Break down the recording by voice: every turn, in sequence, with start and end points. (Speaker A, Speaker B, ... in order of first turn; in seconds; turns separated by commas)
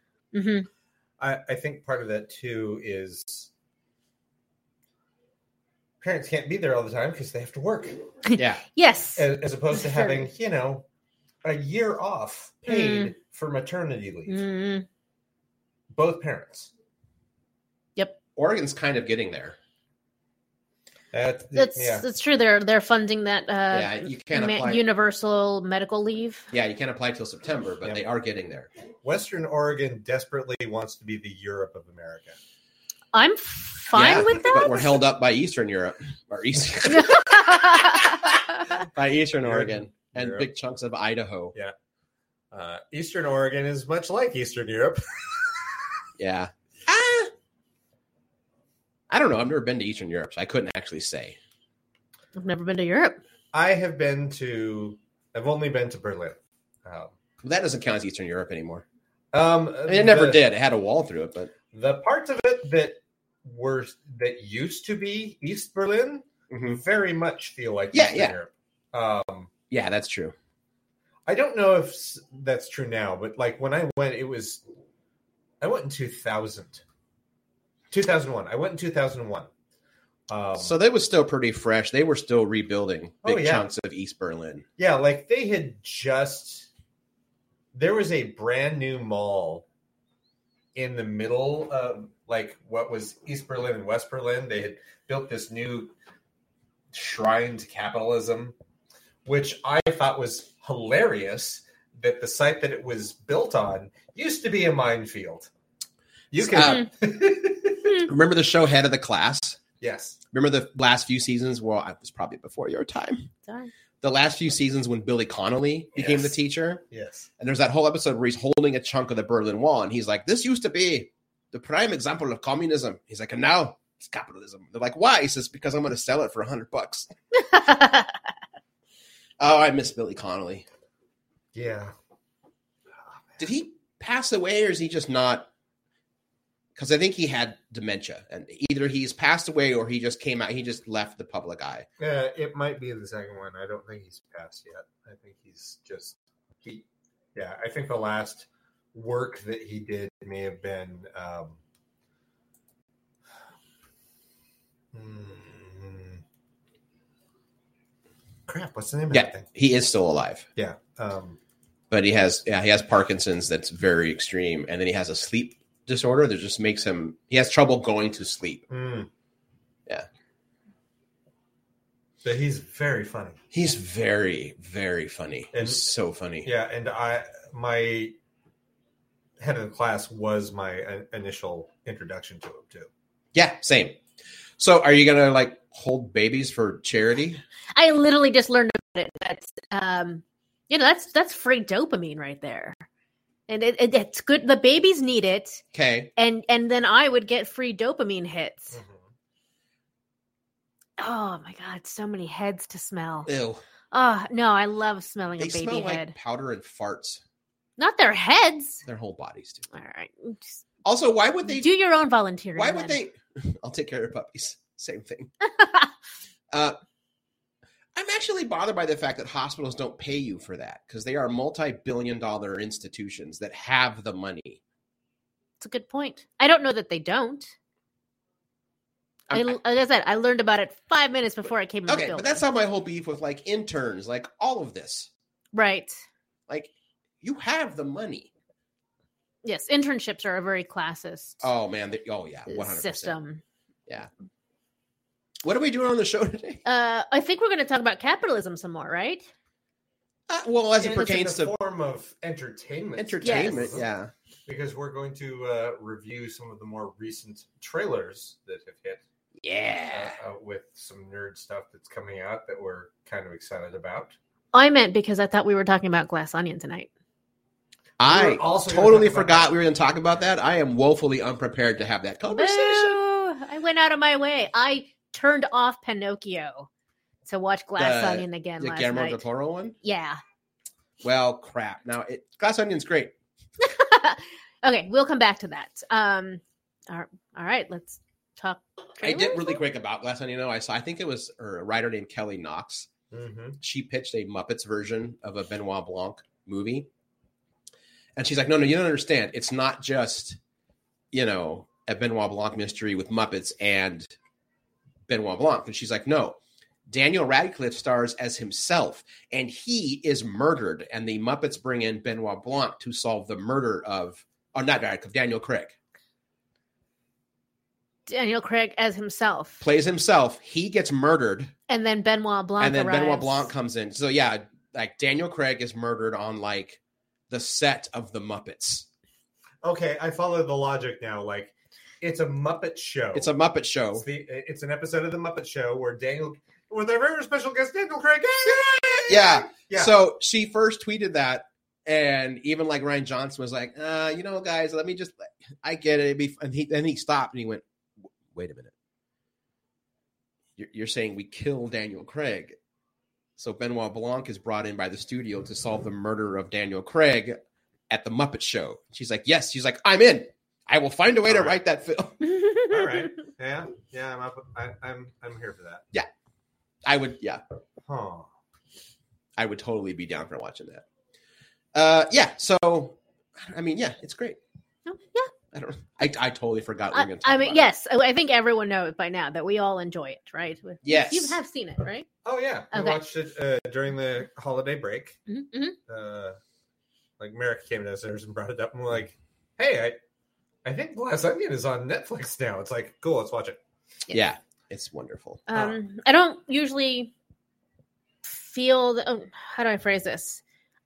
Speaker A: 0.3-0.7, Speaker B: 1.2-3.5, Speaker B: 6.0-8.1, Speaker A: 8.2-10.2, Speaker C: 8.4-8.6, Speaker B: 9.2-10.9, Speaker B: 11.4-14.4, Speaker A: 12.7-13.1, Speaker A: 14.3-14.9, Speaker B: 15.9-16.7, Speaker C: 18.4-19.6, Speaker B: 21.1-22.1, Speaker A: 21.5-26.5, Speaker C: 23.7-24.8, Speaker C: 26.5-28.7, Speaker B: 29.0-32.4, Speaker A: 33.1-35.0, Speaker C: 33.9-41.5, Speaker A: 36.9-38.8, Speaker B: 39.4-40.5, Speaker B: 42.5-45.8, Speaker C: 46.2-47.3, Speaker C: 49.1-51.4, Speaker A: 52.4-53.2, Speaker B: 53.5-57.1, Speaker C: 57.4-58.8, Speaker B: 59.3-60.4, Speaker C: 59.9-61.5, Speaker B: 61.7-69.5, Speaker C: 66.5-66.8, Speaker C: 67.9-68.4, Speaker C: 69.7-70.3, Speaker B: 71.2-74.6, Speaker B: 75.6-76.8, Speaker B: 77.9-79.5, Speaker B: 80.3-80.8, Speaker C: 80.6-84.6, Speaker B: 83.2-83.7, Speaker B: 84.8-86.7, Speaker B: 87.7-89.7, Speaker B: 90.8-95.9, Speaker B: 96.9-98.5, Speaker B: 99.2-105.5, Speaker B: 106.3-108.0, Speaker C: 106.4-106.9, Speaker C: 108.0-109.6, Speaker B: 109.8-110.2, Speaker C: 110.3-113.3, Speaker A: 113.5-113.7, Speaker C: 114.0-116.8, Speaker B: 116.0-116.3, Speaker B: 116.9-117.3, Speaker C: 117.4-127.1, Speaker A: 127.5-128.1, Speaker C: 129.4-130.6, Speaker B: 131.5-131.9, Speaker B: 133.0-133.4, Speaker C: 133.4-135.5, Speaker C: 136.8-141.9, Speaker B: 142.0-151.6, Speaker B: 154.9-156.2, Speaker B: 158.5-159.5, Speaker C: 159.1-160.4, Speaker B: 160.6-161.4, Speaker C: 161.9-168.6, Speaker B: 168.7-169.1, Speaker B: 172.2-173.4, Speaker C: 173.5-176.5, Speaker B: 175.5-175.8, Speaker B: 176.4-178.2, Speaker B: 179.4-182.9, Speaker C: 183.3-184.0, Speaker C: 184.6-187.4, Speaker A: 187.8-192.8, Speaker A: 193.5-195.6, Speaker C: 195.7-196.1, Speaker A: 196.2-198.8, Speaker B: 198.7-199.0, Speaker A: 201.0-203.3, Speaker C: 203.3-203.6, Speaker A: 203.9-206.1, Speaker C: 205.4-207.2, Speaker A: 207.8-208.8, Speaker C: 208.8-209.7, Speaker A: 209.7-210.6, Speaker C: 210.8-211.7, Speaker A: 211.5-213.0, Speaker C: 212.6-215.3, Speaker C: 216.5-216.8, Speaker C: 217.9-224.6, Speaker A: 225.6-227.5, Speaker C: 229.3-229.6, Speaker A: 229.3-232.4, Speaker C: 231.9-235.1, Speaker A: 235.5-236.0, Speaker C: 236.5-238.3, Speaker A: 239.4-241.5, Speaker C: 241.4-243.2, Speaker A: 242.5-243.4, Speaker C: 245.4-246.6, Speaker A: 246.6-249.3, Speaker C: 250.3-251.5, Speaker B: 250.8-253.9, Speaker C: 253.0-254.1, Speaker A: 253.2-253.6, Speaker B: 254.5-259.0, Speaker C: 259.4-260.1, Speaker B: 259.9-264.1, Speaker A: 264.5-266.9, Speaker C: 268.0-273.0, Speaker B: 268.1-269.5, Speaker A: 272.3-276.7, Speaker A: 277.3-279.2, Speaker C: 277.8-279.8, Speaker A: 279.8-280.2, Speaker C: 281.0-283.1, Speaker A: 283.6-289.6, Speaker C: 289.0-292.9, Speaker B: 293.1-293.6, Speaker C: 293.6-296.9, Speaker C: 298.1-300.4, Speaker C: 301.1-304.1, Speaker C: 305.1-306.4, Speaker C: 306.9-315.8, Speaker A: 318.1-319.6, Speaker C: 319.6-321.5, Speaker A: 321.7-323.5, Speaker C: 322.6-328.9, Speaker B: 329.6-333.3, Speaker C: 333.1-334.1, Speaker B: 333.9-339.9, Speaker C: 339.1-347.6, Speaker C: 348.3-348.7, Speaker C: 350.6-352.6, Speaker C: 353.4-362.2, Speaker B: 361.3-361.6, Speaker A: 362.4-362.8, Speaker B: 362.7-365.8, Speaker C: 366.9-367.4, Speaker B: 367.9-368.3, Speaker C: 369.4-370.8, Speaker C: 371.7-374.4, Speaker A: 374.9-375.3, Speaker C: 375.5-377.6, Speaker A: 376.9-382.1, Speaker C: 380.8-381.4, Speaker B: 382.2-385.2, Speaker A: 382.7-383.0, Speaker A: 385.3-385.8, Speaker B: 385.9-386.4, Speaker B: 387.2-389.9, Speaker B: 390.6-393.6, Speaker C: 394.1-395.5, Speaker A: 395.5-397.1, Speaker A: 398.2-400.4